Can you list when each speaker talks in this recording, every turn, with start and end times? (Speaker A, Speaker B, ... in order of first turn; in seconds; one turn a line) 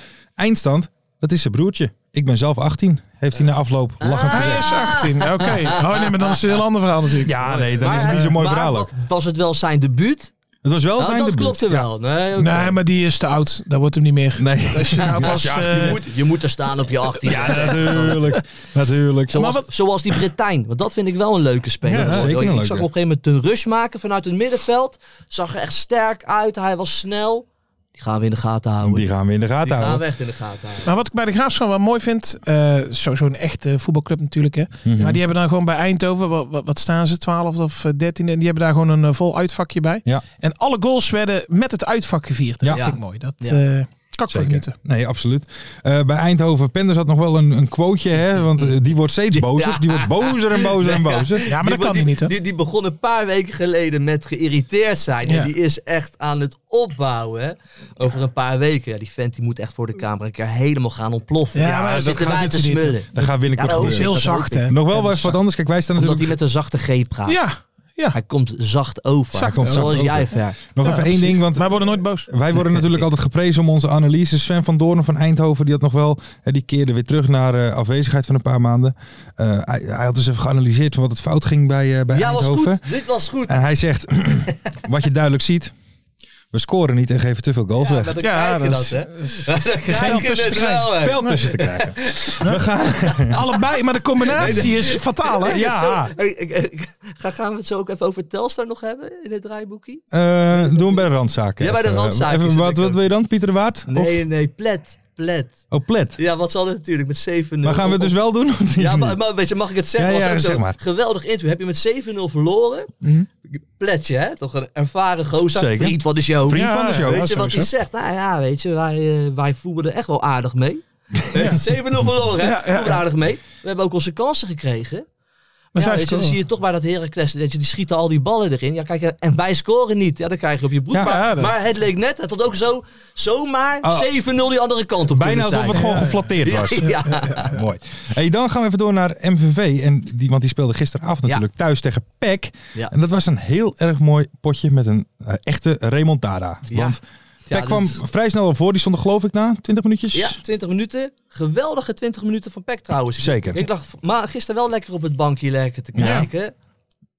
Speaker A: 0.4-5.0
Speaker B: 4.0-6.1
Speaker C: 4.3-8.3
Speaker A: 7.2-8.9
Speaker B: 7.5-10.3
Speaker A: 10.6-11.9
Speaker B: 11.0-12.8
Speaker C: 12.4-16.0
Speaker A: 14.4-16.0
Speaker B: 15.0-18.3
Speaker A: 17.2-19.5
Speaker C: 17.5-17.8
Speaker B: 19.3-29.1
Speaker C: 19.3-19.7
Speaker C: 21.8-22.3
Speaker A: 21.9-22.9
Speaker A: 28.8-30.0
Speaker B: 29.6-30.9
Speaker C: 30.8-44.7
Speaker A: 34.8-35.2
Speaker B: 42.7-43.6
Speaker A: 44.3-51.5
Speaker B: 49.3-64.8
Speaker C: 51.5-52.3
Speaker C: 61.5-65.4
Speaker A: 61.6-66.3
Speaker B: 66.0-67.4
Speaker C: 67.3-68.2
Speaker B: 68.1-70.6
Speaker C: 69.3-70.2
Speaker A: 69.5-82.9
Speaker C: 70.8-72.5
Speaker B: 82.1-83.6
Speaker A: 83.5-85.7
Speaker A: 86.5-88.1
Speaker B: 87.8-92.4
Speaker C: 88.2-91.5
Speaker A: 90.6-93.4
Speaker C: 93.2-95.9
Speaker A: 94.3-94.7
Speaker B: 94.3-101.0
Speaker A: 95.4-96.1
Speaker A: 100.1-104.2
Speaker B: 101.6-103.1
Speaker B: 103.9-105.6
Speaker A: 105.7-106.2
Speaker B: 106.2-108.2
Speaker A: 107.6-109.2
Speaker B: 108.8-112.9
Speaker A: 110.0-110.8
Speaker C: 113.0-113.3
Speaker B: 113.5-125.0
Speaker A: 115.5-117.4
Speaker C: 116.5-117.7
Speaker C: 122.4-123.0
Speaker B: 125.7-137.5
Speaker C: 125.7-126.4
Speaker A: 130.9-131.2
Speaker C: 131.0-131.5
Speaker A: 133.8-134.1
Speaker A: 135.1-147.0
Speaker C: 135.7-137.5
Speaker B: 146.7-148.0
Speaker A: 147.5-150.4
Speaker B: 150.1-156.5
Speaker A: 153.2-153.7
Speaker A: 155.9-156.3
Speaker C: 156.0-156.3